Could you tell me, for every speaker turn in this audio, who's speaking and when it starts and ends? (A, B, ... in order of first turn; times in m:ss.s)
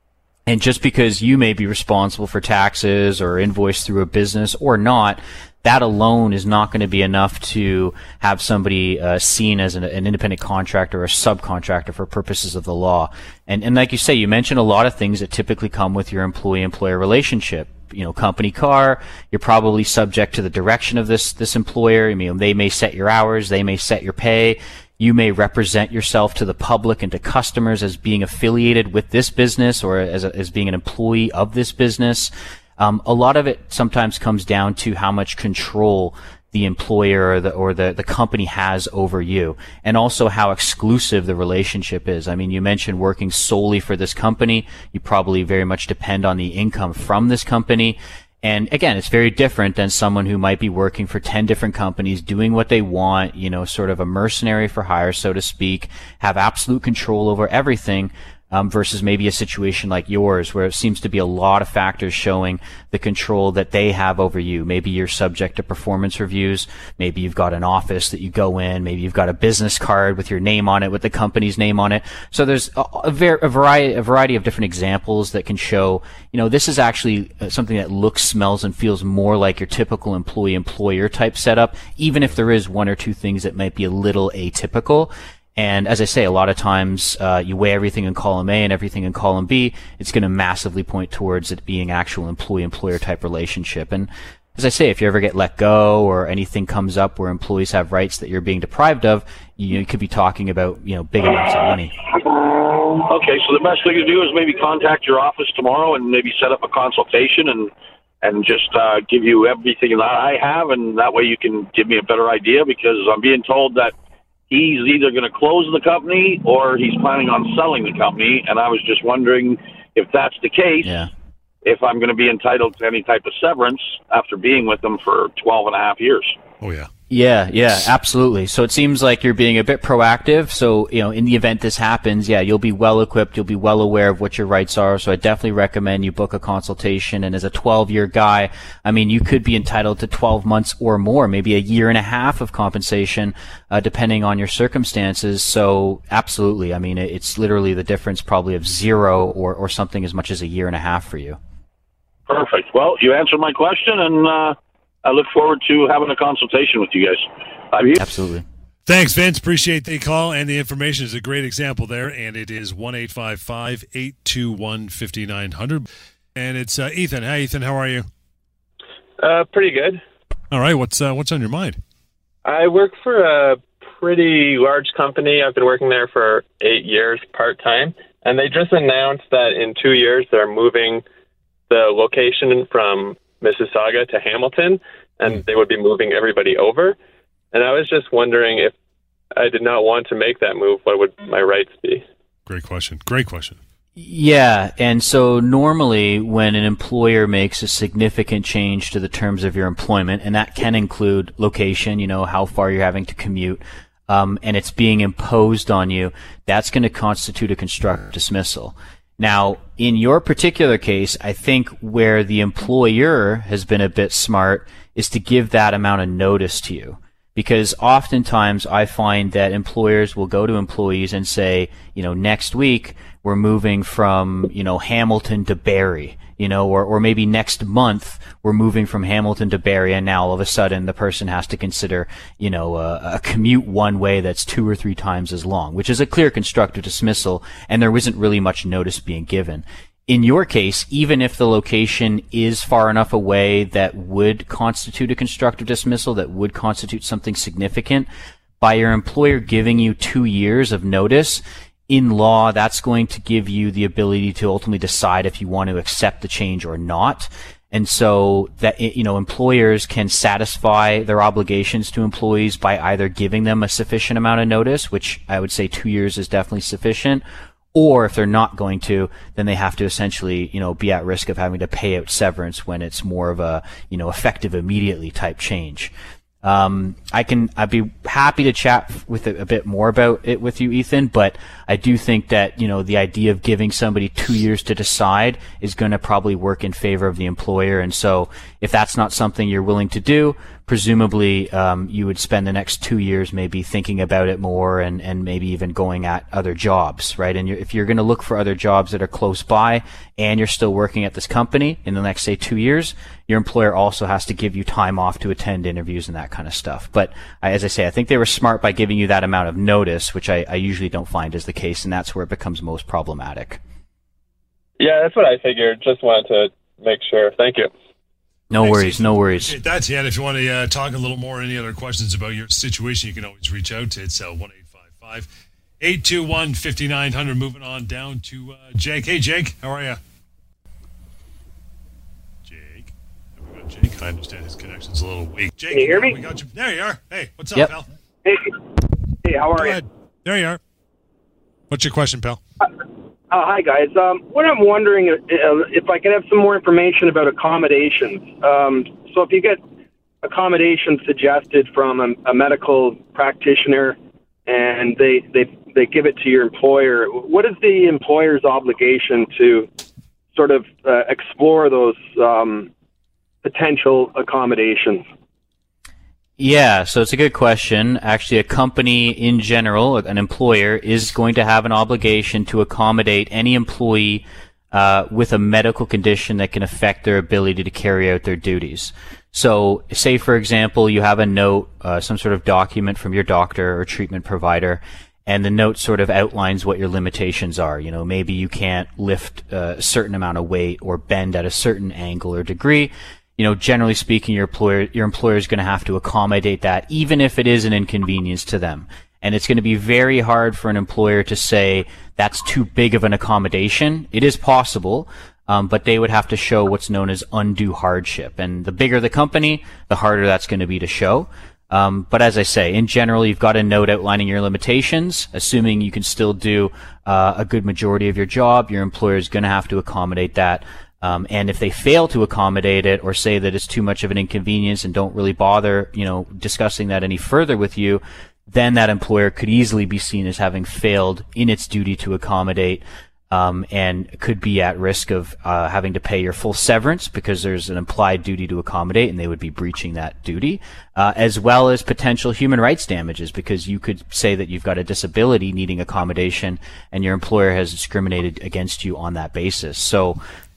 0:00.4-1:41.9 A
1:43.0-1:53.9 B
1:54.5-2:01.0 B
2:00.8-2:01.1 A
2:01.6-2:06.3 B
2:06.6-2:06.9 C
2:07.1-2:31.4 A
2:32.3-2:38.1 B
2:38.0-2:38.4 A
2:38.8-2:48.0 C
2:49.2-2:50.0 D
2:50.5-2:51.8 C
2:52.4-3:01.0 D
3:01.7-3:07.0 D
3:07.5-3:08.7 D
3:09.3-3:12.0 D
3:12.4-3:13.6 C
3:14.0-4:08.1 A
4:08.6-4:27.2 A
4:27.7-4:35.9 A
4:36.4-5:13.6 A
5:14.8-5:17.7 D
5:18.5-5:19.5 A
5:18.6-5:25.3 C
5:25.8-5:30.0 C
5:32.4-5:37.9 C
5:35.7-5:36.2 E
5:38.2-5:38.5 E
5:39.2-5:39.8 E
5:39.5-5:40.6 C
5:41.7-5:42.4 C
5:43.3-5:49.6 E
5:50.2-5:54.0 E
5:54.5-5:59.7 E
6:00.3-6:02.7 E
6:03.4-6:05.0 E
6:06.4-7:30.2 A